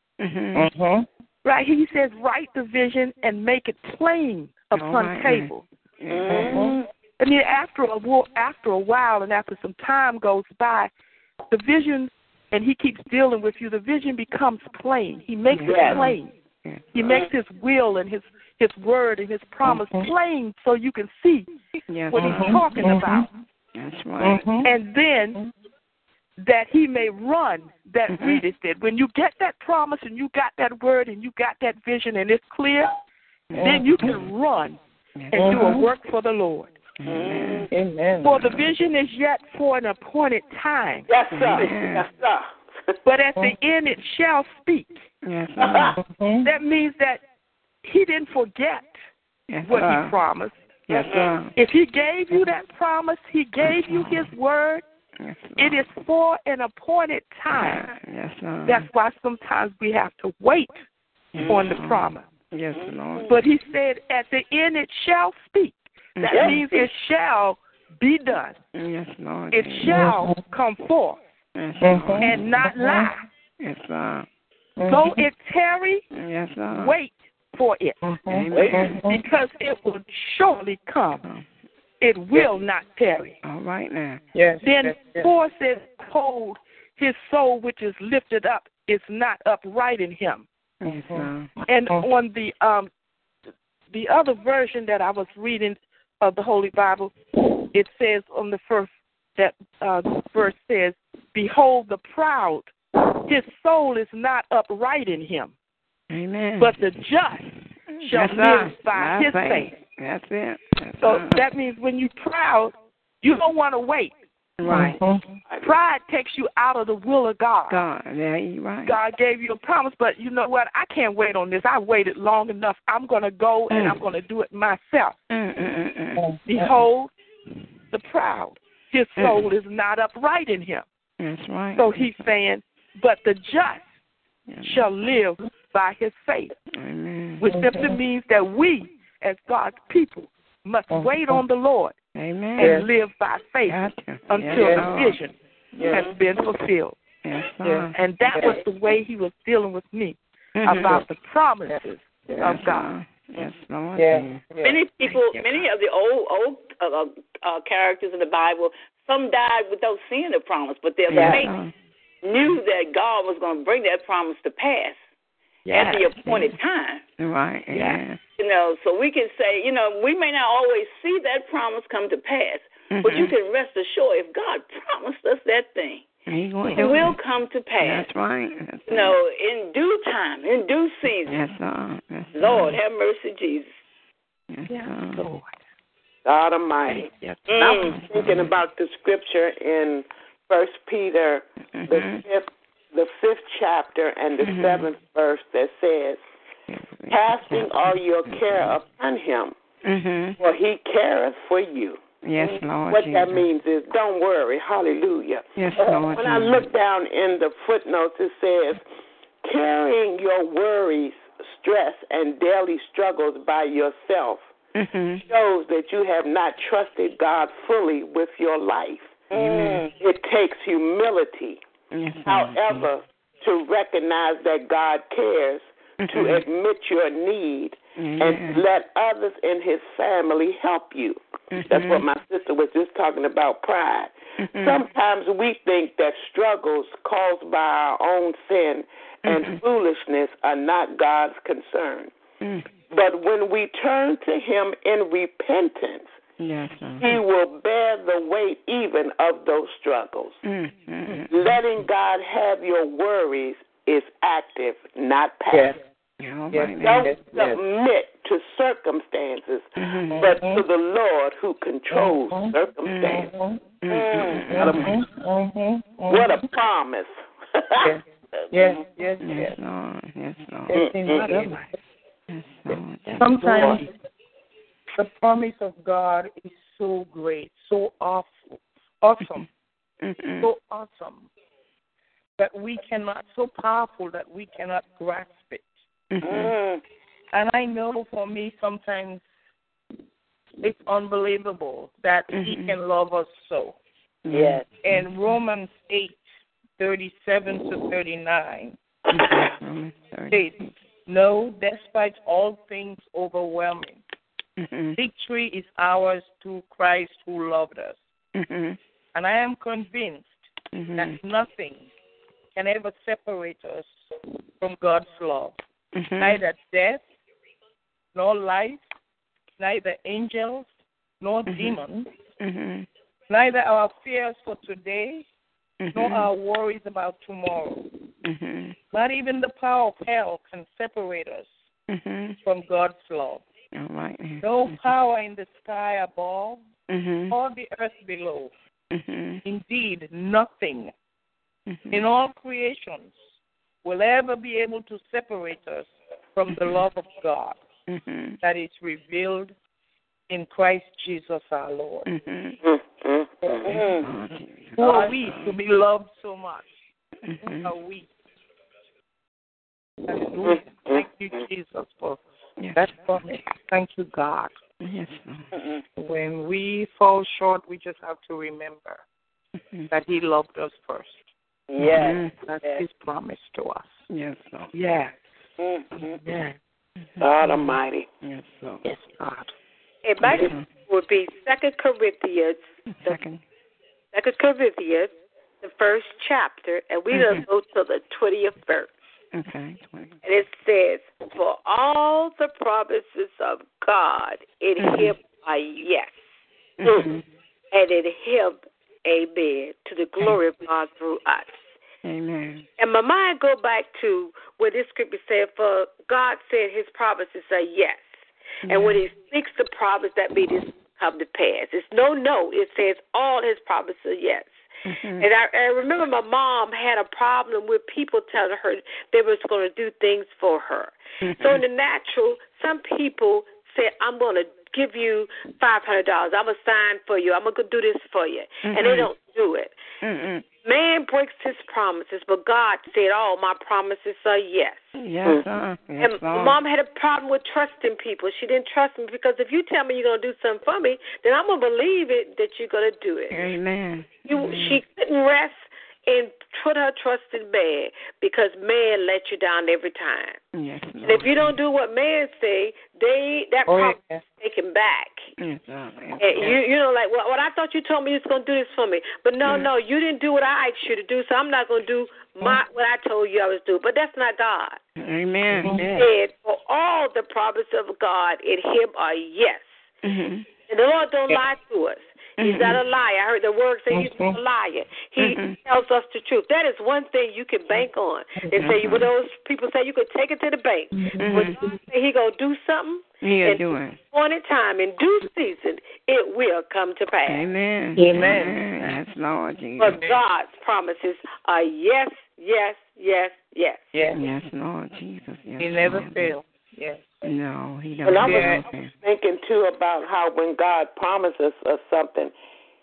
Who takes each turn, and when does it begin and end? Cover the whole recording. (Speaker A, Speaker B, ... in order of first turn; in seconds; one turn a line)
Speaker A: 0.2-0.7
Speaker B: 0.5-1.1
Speaker C: 1.4-5.6
Speaker A: 4.7-6.6
Speaker D: 6.1-6.8
Speaker B: 6.3-6.8
Speaker C: 7.2-10.9
Speaker C: 11.5-16.3
Speaker A: 15.5-17.2
Speaker D: 15.7-16.1
Speaker C: 16.9-21.5
Speaker B: 19.6-20.1
Speaker A: 21.9-22.9
Speaker C: 22.1-23.3
Speaker B: 22.2-23.2
Speaker A: 23.7-24.5
Speaker B: 24.2-24.7
Speaker C: 24.6-25.4
Speaker C: 26.4-32.9
Speaker A: 28.1-28.4
Speaker A: 33.5-34.2
Speaker B: 33.5-34.2
Speaker C: 33.6-34.8
Speaker A: 35.2-35.8
Speaker C: 35.3-36.8
Speaker B: 35.3-35.9
Speaker A: 37.0-37.7
Speaker D: 37.0-37.7
Speaker B: 37.7-38.4
Speaker C: 38.2-41.1
Speaker E: 41.1-42.5
Speaker A: 41.3-42.1
Speaker C: 43.0-45.0
Speaker A: 45.2-46.0
Speaker B: 46.0-46.5
Speaker C: 46.4-47.2
Speaker C: 47.8-49.0
Speaker A: 49.5-50.1
Speaker C: 49.6-50.5
Speaker A: 50.9-51.5
Speaker D: 51.0-51.3
Speaker C: 51.5-54.8
Speaker A: 53.6-54.3
Speaker A: 55.2-55.9
Speaker C: 55.6-57.9
Speaker A: 57.5-58.9
Speaker C: 58.6-60.8
Speaker A: 61.3-63.3
Speaker D: 61.4-61.8
Speaker C: 61.5-62.2
Speaker D: 62.7-63.3
Speaker C: 63.3-68.6
Speaker A: 66.2-66.6
Speaker D: 66.3-66.5
Speaker A: 68.7-70.1
Speaker C: 69.5-71.2
Speaker B: 69.9-70.4
Speaker A: 71.5-72.5
Speaker B: 71.8-73.1
Speaker C: 72.2-73.2
Speaker A: 73.6-74.3
Speaker B: 74.8-75.2
Speaker C: 74.9-76.0
Speaker A: 76.1-77.0
Speaker C: 76.7-78.0
Speaker B: 78.0-79.2
Speaker A: 78.3-79.0
Speaker D: 78.5-78.8
Speaker C: 79.0-81.2
Speaker C: 82.0-83.4
Speaker A: 83.4-84.2
Speaker B: 84.3-85.3
Speaker C: 84.6-90.5
Speaker A: 90.8-91.5
Speaker B: 90.8-91.3
Speaker C: 91.7-92.9
Speaker C: 93.9-97.1
Speaker C: 97.7-102.7
Speaker C: 103.3-105.5
Speaker A: 106.1-106.9
Speaker C: 106.6-107.5
Speaker A: 107.9-111.4
Speaker C: 108.0-109.7
Speaker C: 111.0-114.1
Speaker A: 114.6-115.0
Speaker B: 114.7-115.2
Speaker C: 115.6-117.8
Speaker A: 117.7-119.0
Speaker C: 118.8-125.2
Speaker A: 123.7-124.0
Speaker A: 125.3-126.2
Speaker B: 126.2-126.7
Speaker C: 126.4-127.1
Speaker C: 127.9-130.8
Speaker A: 129.2-129.5
Speaker A: 131.2-132.1
Speaker C: 131.7-133.8
Speaker A: 134.5-134.9
Speaker C: 134.6-136.5
Speaker A: 136.7-137.5
Speaker C: 137.4-141.9
Speaker B: 137.5-137.9
Speaker B: 140.9-141.4
Speaker A: 142.1-142.8
Speaker C: 142.6-145.3
Speaker B: 142.6-142.9
Speaker A: 143.7-145.2
Speaker B: 144.5-144.9
Speaker B: 145.7-146.1
Speaker C: 145.9-147.0
Speaker A: 147.2-147.9
Speaker B: 147.6-148.6
Speaker C: 147.9-152.9
Speaker A: 150.6-151.0
Speaker B: 151.7-152.6
Speaker A: 152.4-154.4
Speaker B: 153.9-155.5
Speaker D: 154.6-161.5
Speaker A: 161.1-161.7
Speaker B: 161.1-161.4
Speaker D: 162.2-165.0
Speaker B: 165.7-166.0
Speaker D: 165.7-167.0
Speaker A: 166.2-166.5
Speaker A: 167.2-168.2
Speaker D: 168.4-176.0
Speaker A: 172.9-173.3
Speaker A: 176.3-177.2
Speaker D: 176.8-178.1
Speaker A: 177.8-179.2
Speaker D: 178.9-181.4
Speaker A: 181.3-182.8
Speaker D: 182.3-183.7
Speaker A: 184.5-185.2
Speaker E: 186.2-196.2
Speaker B: 186.9-188.0
Speaker D: 187.5-187.9
Speaker A: 187.9-188.5
Speaker A: 191.8-192.2
Speaker A: 194.4-194.9
Speaker A: 196.7-198.7
Speaker E: 197.1-199.5
Speaker A: 199.8-200.4
Speaker E: 200.4-208.8
Speaker A: 202.2-203.4
Speaker A: 205.6-206.7
Speaker E: 209.4-214.5
Speaker A: 214.7-215.2
Speaker E: 215.3-219.2
Speaker D: 219.3-219.9
Speaker A: 219.3-219.8
Speaker E: 219.9-221.6
Speaker A: 221.9-222.9
Speaker E: 222.2-242.1
Speaker A: 226.0-226.4
Speaker A: 228.0-228.6
Speaker A: 231.5-232.0
Speaker A: 234.4-234.8
Speaker A: 239.2-239.6
Speaker A: 242.4-242.7
Speaker E: 242.9-246.1
Speaker A: 246.4-247.2
Speaker E: 247.0-250.4
Speaker A: 250.4-251.3
Speaker E: 251.3-255.7
Speaker B: 255.5-255.8
Speaker A: 256.2-257.1
Speaker B: 256.5-257.6
Speaker E: 256.8-263.3
Speaker A: 259.8-260.3
Speaker B: 260.1-260.6
Speaker B: 261.9-263.6
Speaker A: 262.9-263.3
Speaker A: 263.8-265.0
Speaker D: 263.9-264.4
Speaker B: 264.5-266.4
Speaker E: 264.6-264.9
Speaker E: 266.1-267.9
Speaker B: 267.8-269.6
Speaker A: 269.2-270.8
Speaker B: 270.7-271.7
Speaker E: 270.8-271.3
Speaker A: 272.3-273.8
Speaker B: 273.1-273.9
Speaker E: 273.5-273.8
Speaker B: 274.9-278.4
Speaker B: 279.0-279.4
Speaker A: 280.0-280.5
Speaker B: 280.4-281.3
Speaker B: 282.4-285.7
Speaker A: 286.1-286.5
Speaker D: 286.2-286.8
Speaker B: 287.3-289.2
Speaker B: 290.6-293.8
Speaker A: 292.3-292.8
Speaker A: 294.2-295.0
Speaker D: 294.3-294.6
Speaker B: 294.8-296.2
Speaker B: 296.8-298.8
Speaker A: 299.1-300.6
Speaker B: 300.3-304.0
Speaker A: 304.6-305.0
Speaker B: 304.9-308.0
Speaker A: 308.3-308.8
Speaker B: 309.1-310.3
Speaker A: 310.7-311.2
Speaker B: 311.0-311.8
Speaker B: 312.5-313.9
Speaker B: 314.6-315.6
Speaker A: 315.9-316.4
Speaker B: 316.2-317.0
Speaker B: 318.1-318.8
Speaker B: 319.6-320.7
Speaker B: 321.2-322.1
Speaker A: 321.5-321.8
Speaker A: 322.4-322.9
Speaker B: 323.3-325.2
Speaker A: 325.8-326.3
Speaker B: 325.9-327.9
Speaker A: 328.2-328.8
Speaker B: 328.9-331.5
Speaker A: 331.9-332.4
Speaker B: 332.4-333.4
Speaker A: 333.7-334.8
Speaker B: 334.4-336.6
Speaker A: 336.9-337.4
Speaker B: 337.3-338.5
Speaker A: 338.9-339.4
Speaker B: 339.4-340.9
Speaker A: 341.7-342.0
Speaker B: 341.9-343.2
Speaker B: 343.8-347.6
Speaker A: 347.9-348.4
Speaker B: 348.4-349.5
Speaker B: 350.3-352.1
Speaker A: 352.1-352.6
Speaker E: 352.6-353.9
Speaker B: 353.4-354.0
Speaker D: 353.6-354.0
Speaker A: 354.0-355.5
Speaker B: 354.8-356.7
Speaker A: 357.2-357.7
Speaker B: 357.4-358.1
Speaker B: 360.1-362.2
Speaker E: 360.4-361.0
Speaker A: 362.6-363.2
Speaker B: 362.7-364.5
Speaker A: 364.8-365.5
Speaker D: 365.5-365.8
Speaker B: 366.0-369.0
Speaker B: 369.9-371.2
Speaker D: 371.7-372.8
Speaker A: 371.8-372.3
Speaker B: 372.4-373.9
Speaker A: 374.1-374.7
Speaker C: 374.7-375.1
Speaker D: 375.6-376.2
Speaker A: 377.0-378.8
Speaker E: 377.2-378.1
Speaker B: 378.9-379.5
Speaker F: 380.0-383.2
Speaker A: 380.2-380.7
Speaker A: 382.9-383.4
Speaker F: 384.1-385.1
Speaker F: 385.6-388.9
Speaker A: 387.1-387.4
Speaker A: 389.3-390.2
Speaker F: 390.2-396.2
Speaker A: 394.8-395.1
Speaker A: 396.8-397.2
Speaker F: 397.7-401.6
Speaker A: 402.0-402.7
Speaker F: 402.8-408.1
Speaker F: 408.6-414.5
Speaker A: 408.6-409.0
Speaker A: 414.8-415.3
Speaker F: 415.2-429.8
Speaker A: 421.2-421.6
Speaker A: 428.6-429.1
Speaker A: 430.0-430.4
Speaker F: 430.6-434.9
Speaker A: 434.9-436.6
Speaker F: 436.0-443.5
Speaker A: 443.3-444.8
Speaker F: 444.2-450.4
Speaker A: 450.5-451.5
Speaker F: 451.0-455.3
Speaker B: 453.6-454.2
Speaker A: 455.4-456.6
Speaker F: 456.2-464.8
Speaker A: 465.0-465.9
Speaker B: 465.6-466.1
Speaker F: 465.8-469.7
Speaker A: 470.0-470.4
Speaker F: 470.7-487.5
Speaker A: 472.4-472.8
Speaker B: 473.9-474.4
Speaker A: 475.2-475.6
Speaker B: 478.4-478.7
Speaker A: 478.5-479.1
Speaker B: 480.9-481.8
Speaker A: 481.2-481.6
Speaker A: 483.2-484.0
Speaker A: 487.2-490.0
Speaker B: 487.9-488.9
Speaker F: 489.8-493.9
Speaker B: 489.8-490.2
Speaker B: 493.9-494.2
Speaker A: 494.1-496.3
Speaker B: 495.6-497.2
Speaker A: 497.2-498.9
Speaker E: 498.0-502.3
Speaker B: 498.2-498.6